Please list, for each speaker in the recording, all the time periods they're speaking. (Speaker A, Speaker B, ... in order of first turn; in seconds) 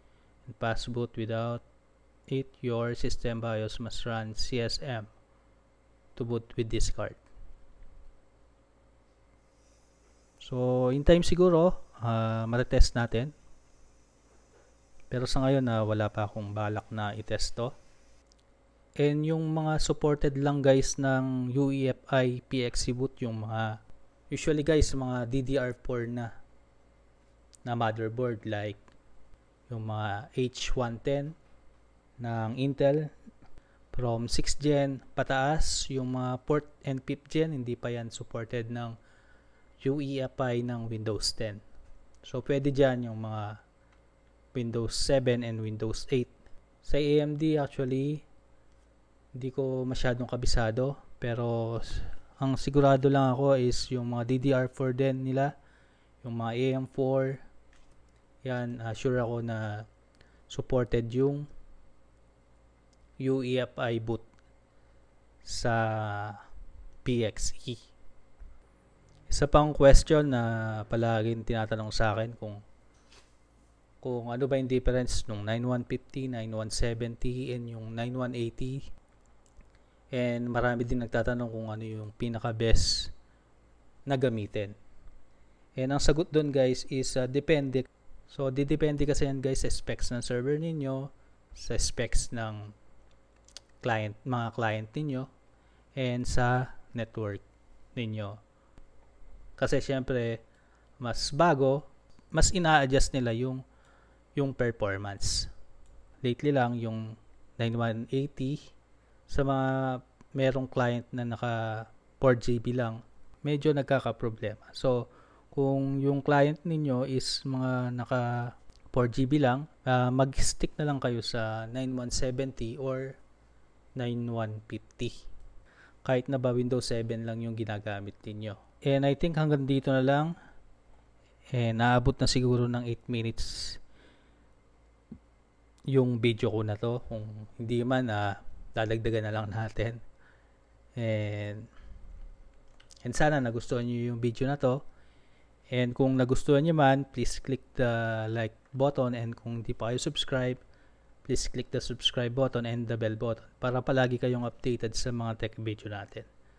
Speaker A: 0.5-1.6, 2.3-5.1, 6.2-7.2, 10.4-13.3, 15.1-17.7, 19.0-23.7, 24.3-26.3, 27.6-28.8, 29.7-31.4, 32.2-33.1, 33.9-38.9, 39.8-41.6, 42.2-43.5, 44.5-46.3, 46.8-48.2, 49.3-55.5, 56.2-57.4, 58.4-59.8, 60.5-61.5, 63.2-64.2, 65.4-66.4, 67.0-67.8, 69.3-72.6, 74.0-78.8, 80.1-83.1, 84.1-84.7, 85.8-92.7, 93.8-95.3, 96.0-97.4, 97.9-98.4, 99.6-100.4, 101.0-103.6, 104.3-105.5, 106.2-108.7, 109.3-123.2, 124.0-125.1, 126.0-130.3, 131.5-133.8, 135.9-140.0, 141.0-141.7, 143.0-144.8, 145.7-150.6, 151.2-156.3